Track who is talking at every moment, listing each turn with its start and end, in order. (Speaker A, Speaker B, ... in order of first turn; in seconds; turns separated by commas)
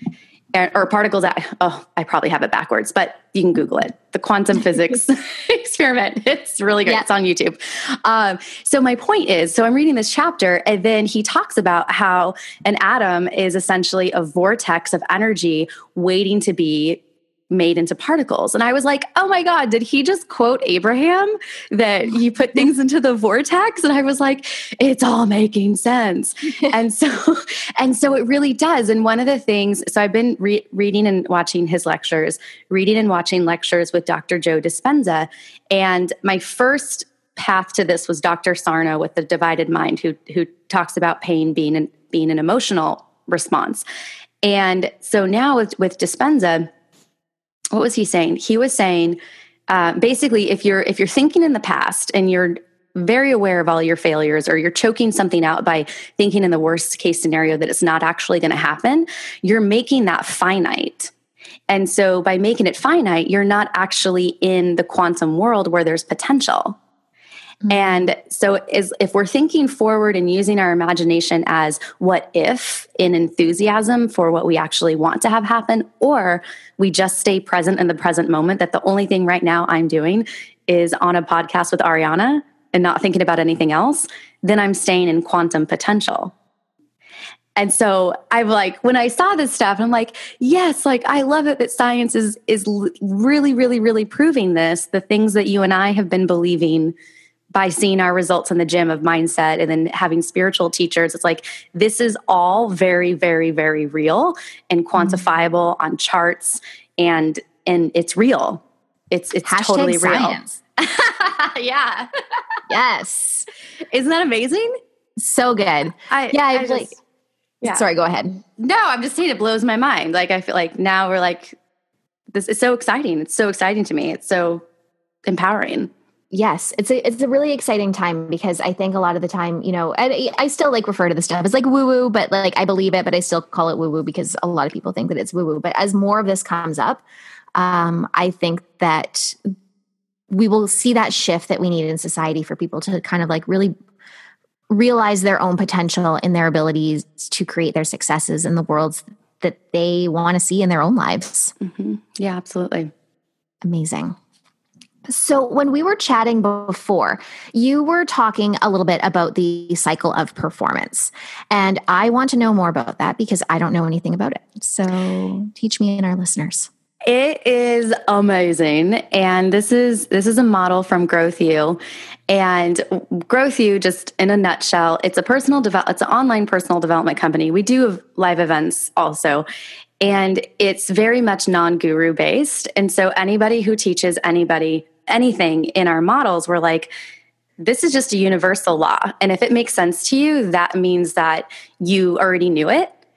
Speaker A: 0.5-43.8, Speaker A: 44.4-46.7, Speaker A: 47.7-61.1, Speaker A: 61.7-66.8, Speaker B: 67.6-68.1, Speaker A: 67.7-86.3, Speaker A: 87.6-96.9, Speaker A: 97.5-112.1, Speaker B: 105.0-105.2, Speaker B: 109.4-110.6, Speaker B: 112.7-113.5, Speaker A: 113.9-114.7, Speaker B: 115.2-116.9, Speaker A: 116.1-116.9, Speaker B: 117.6-118.4, Speaker A: 118.6-121.5, Speaker A: 122.3-124.6, Speaker A: 125.2-125.9, Speaker B: 126.3-137.0, Speaker B: 137.6-139.5, Speaker B: 140.3-143.7, Speaker B: 144.7-151.5, Speaker A: 151.6-152.9, Speaker B: 153.6-154.2, Speaker B: 155.1-166.7, Speaker A: 167.1-179.4, Speaker A: 180.0-186.9, Speaker A: 187.6-192.9